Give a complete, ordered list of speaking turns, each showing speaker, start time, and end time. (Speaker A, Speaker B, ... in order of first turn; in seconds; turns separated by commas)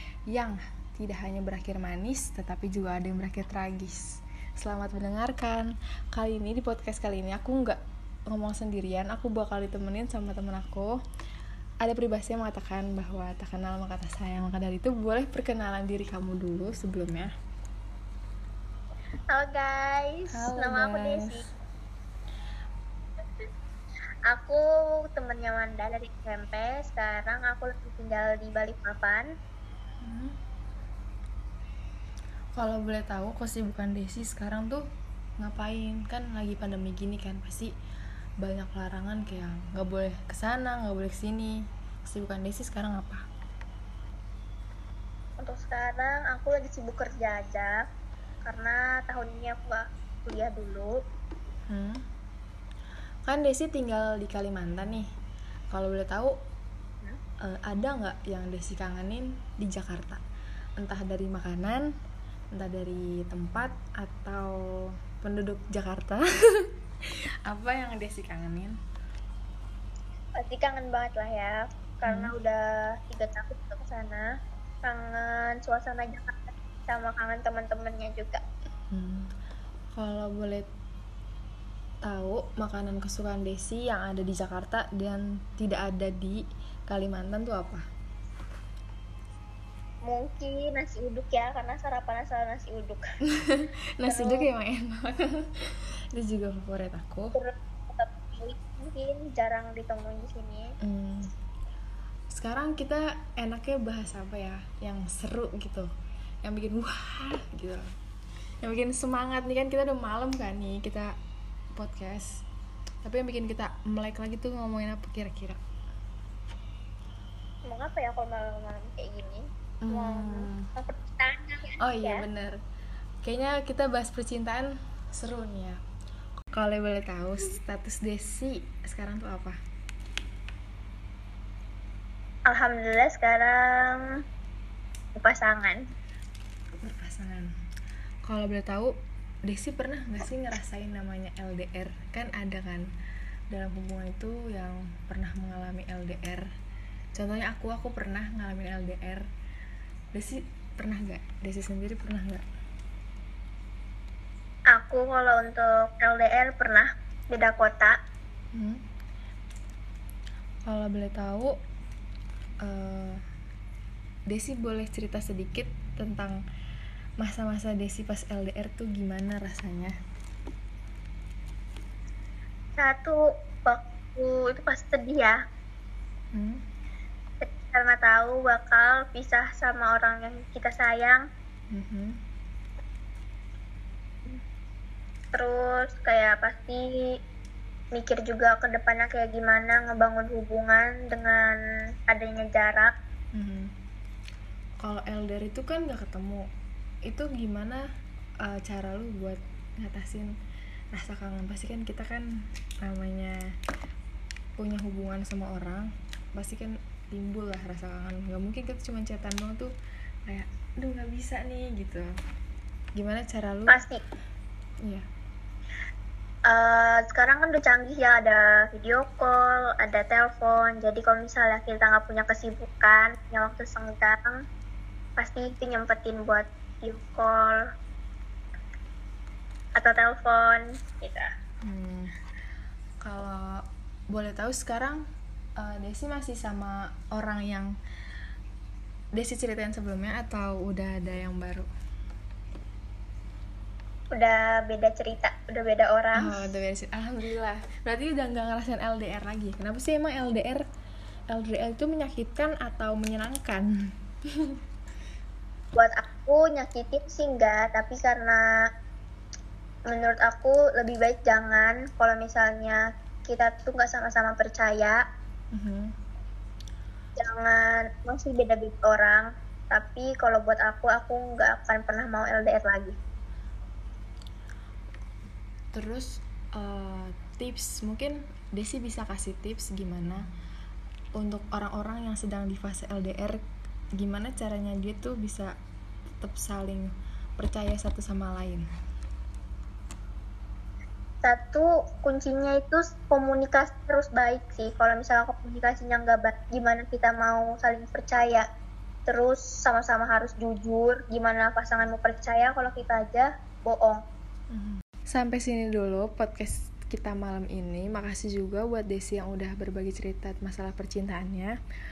Speaker A: 0.3-7.8, Speaker A: 8.3-10.9, Speaker A: 11.8-17.3, Speaker B: 19.3-21.4, Speaker A: 20.3-21.4, Speaker B: 24.3-29.3, Speaker A: 30.0-30.4, Speaker A: 32.6-34.8, Speaker A: 35.4-37.7, Speaker A: 38.4-43.2, Speaker B: 45.4-47.8, Speaker B: 48.4-51.0, Speaker A: 51.7-52.0, Speaker A: 53.3-55.0, Speaker A: 55.7-56.3, Speaker A: 57.5-60.2, Speaker A: 60.8-61.9, Speaker A: 62.5-64.6, Speaker A: 65.2-66.7, Speaker A: 67.5-68.8, Speaker B: 70.4-74.3, Speaker A: 72.1-72.3, Speaker B: 74.8-78.4, Speaker A: 78.9-79.3, Speaker A: 80.0-80.7, Speaker A: 82.0-87.8, Speaker B: 90.1-93.0, Speaker A: 93.3-95.5, Speaker B: 94.1-94.5, Speaker A: 96.1-97.4, Speaker B: 97.3-100.7, Speaker A: 100.8-101.3, Speaker A: 102.3-105.9, Speaker A: 106.4-107.8, Speaker A: 108.6-111.1, Speaker A: 111.8-112.4, Speaker A: 113.0-115.6, Speaker B: 117.7-122.2, Speaker A: 119.8-120.7, Speaker A: 121.8-122.6, Speaker A: 123.2-125.8, Speaker A: 126.5-129.6, Speaker B: 132.5-134.0, Speaker B: 135.2-135.8, Speaker A: 136.8-137.5, Speaker A: 138.3-138.9, Speaker A: 139.5-142.9, Speaker A: 143.5-146.5, Speaker A: 147.2-149.3, Speaker A: 150.1-152.4, Speaker B: 154.7-157.9, Speaker A: 158.5-158.8, Speaker A: 160.7-161.5, Speaker A: 162.6-163.2, Speaker A: 164.3-166.4, Speaker A: 167.2-169.9, Speaker B: 172.8-175.4, Speaker A: 176.3-176.6, Speaker B: 177.4-181.2, Speaker A: 181.7-182.2, Speaker B: 185.3-187.0, Speaker B: 187.9-192.9, Speaker A: 193.3-193.7, Speaker A: 194.8-196.4, Speaker A: 197.1-197.8, Speaker A: 198.4-200.3, Speaker A: 200.9-202.3, Speaker A: 202.8-203.4, Speaker A: 204.6-209.7, Speaker A: 210.3-212.1, Speaker A: 213.0-213.8, Speaker B: 213.7-214.0, Speaker B: 216.5-224.4, Speaker B: 225.2-227.6, Speaker B: 229.8-231.3, Speaker A: 231.7-232.1, Speaker A: 233.0-235.0, Speaker A: 235.6-237.7, Speaker A: 239.2-241.7, Speaker B: 244.1-246.4, Speaker A: 246.2-250.6, Speaker A: 251.3-253.7, Speaker B: 255.8-258.4, Speaker B: 259.9-265.0, Speaker A: 265.5-265.9, Speaker B: 267.2-273.0, Speaker A: 275.7-280.2, Speaker A: 281.2-283.4, Speaker A: 284.0-285.5, Speaker A: 286.2-286.9, Speaker A: 287.4-288.7, Speaker B: 291.2-298.4, Speaker B: 299.1-304.0, Speaker A: 304.5-311.6